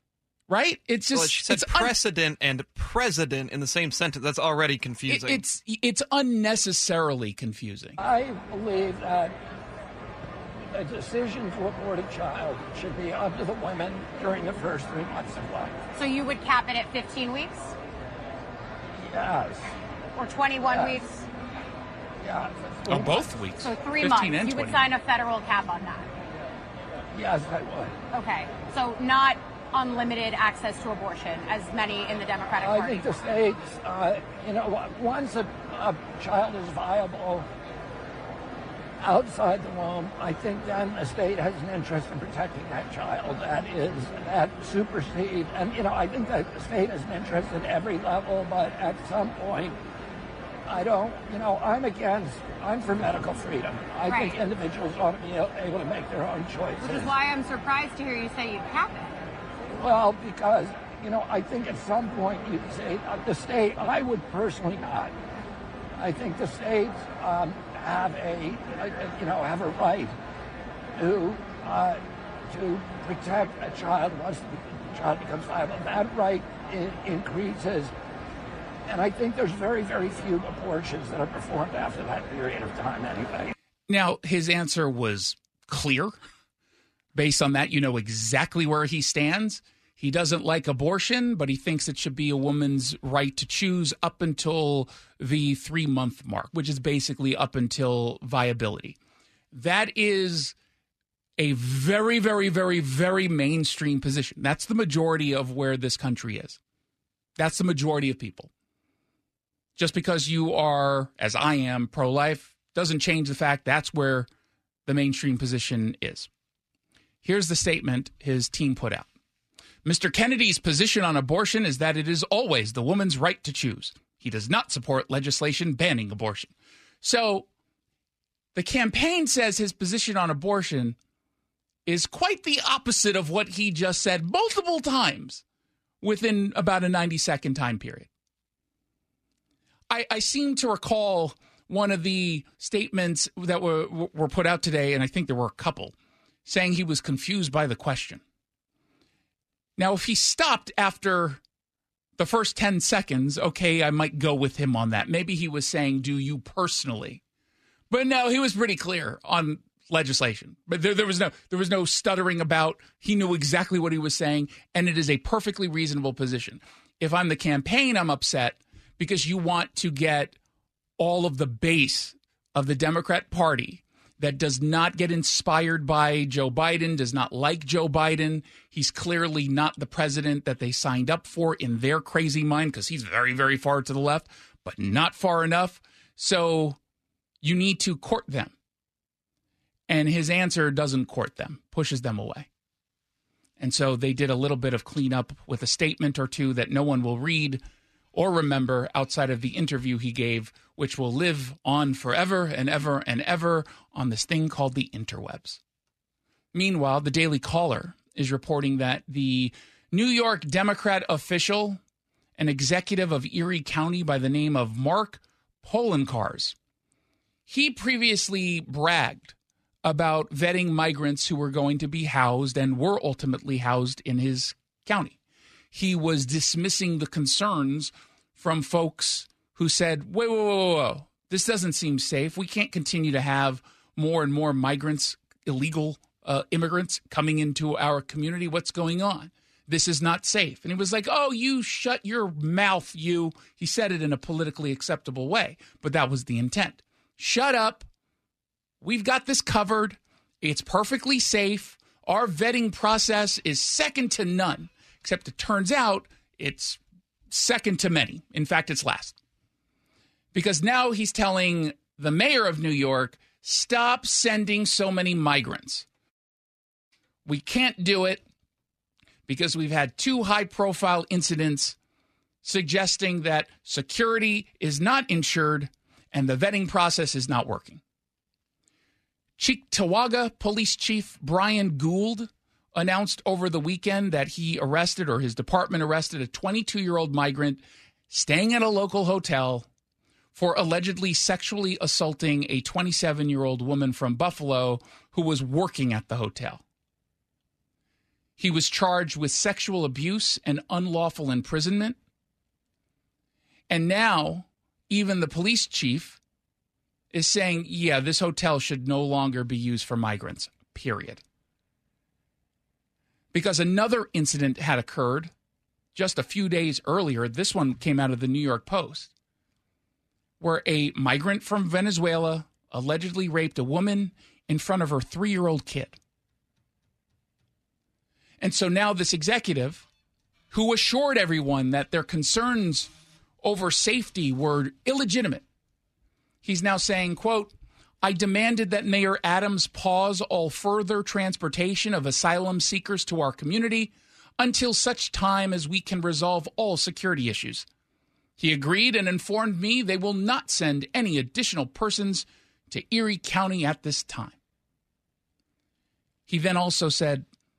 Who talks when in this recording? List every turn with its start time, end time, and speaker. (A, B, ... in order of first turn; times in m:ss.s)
0:00.5-0:01.9 A
0:01.1-0:05.4 B
0:05.1-0:08.0 A
0:08.0-0:09.3 C
0:10.7-0:15.8 C
0:15.9-0:17.7 D
0:19.0-0:19.7 C
0:20.2-0:21.1 D
0:20.7-0:21.0 C
0:22.2-0:23.2 C
0:22.9-0:24.8 A
0:23.6-0:26.1 D
0:27.1-0:27.9 C
0:28.1-0:33.1 D
0:32.6-0:37.5 C
0:39.0-0:49.8 C
0:50.6-0:57.1 C
0:54.1-0:54.4 D
0:56.8-0:59.2 D
0:59.7-1:05.1 C
1:06.0-1:10.1 C
1:11.0-1:17.9 C
1:18.9-1:23.5 C
1:23.9-1:26.2 A
1:27.1-1:39.0 A
1:39.5-1:40.5 A
1:41.4-1:46.6 A
1:47.4-1:48.5 A
1:49.8-1:54.3 A
1:54.8-1:56.3 A
1:57.2-1:59.1 A
1:59.8-2:07.5 A
2:08.5-2:11.0 A
2:11.8-2:15.4 A
2:16.0-2:18.1 A
2:19.9-2:25.9 A
2:26.4-2:28.2 A
2:29.8-2:31.4 A
2:32.2-2:37.2 A
2:37.9-2:50.4 A
2:51.0-3:06.8 A
3:07.4-3:08.5 A
3:09.9-3:12.5 A
3:13.6-3:17.6 A
3:18.1-3:25.6 A
3:26.5-3:31.8 A
3:32.4-3:36.6 A
3:37.5-3:45.2 A
3:45.7-4:07.8 A
4:08.8-4:19.2 A
4:20.3-4:25.9 A
4:27.2-4:28.2 A
4:29.3-4:31.8 A
4:32.4-4:37.8 A
4:39.4-4:49.7 A
4:50.3-4:56.6 A
4:58.4-5:02.0 A
5:03.7-5:06.2 A
5:07.1-5:11.2 A
5:13.3-5:15.3 A
5:15.9-5:19.1 A
5:20.4-5:26.0 A
5:28.4-5:29.9 A
5:30.5-5:32.9 A
5:33.4-5:35.4 A
5:36.4-5:47.6 A
5:48.4-5:54.4 A
5:56.3-5:57.2 A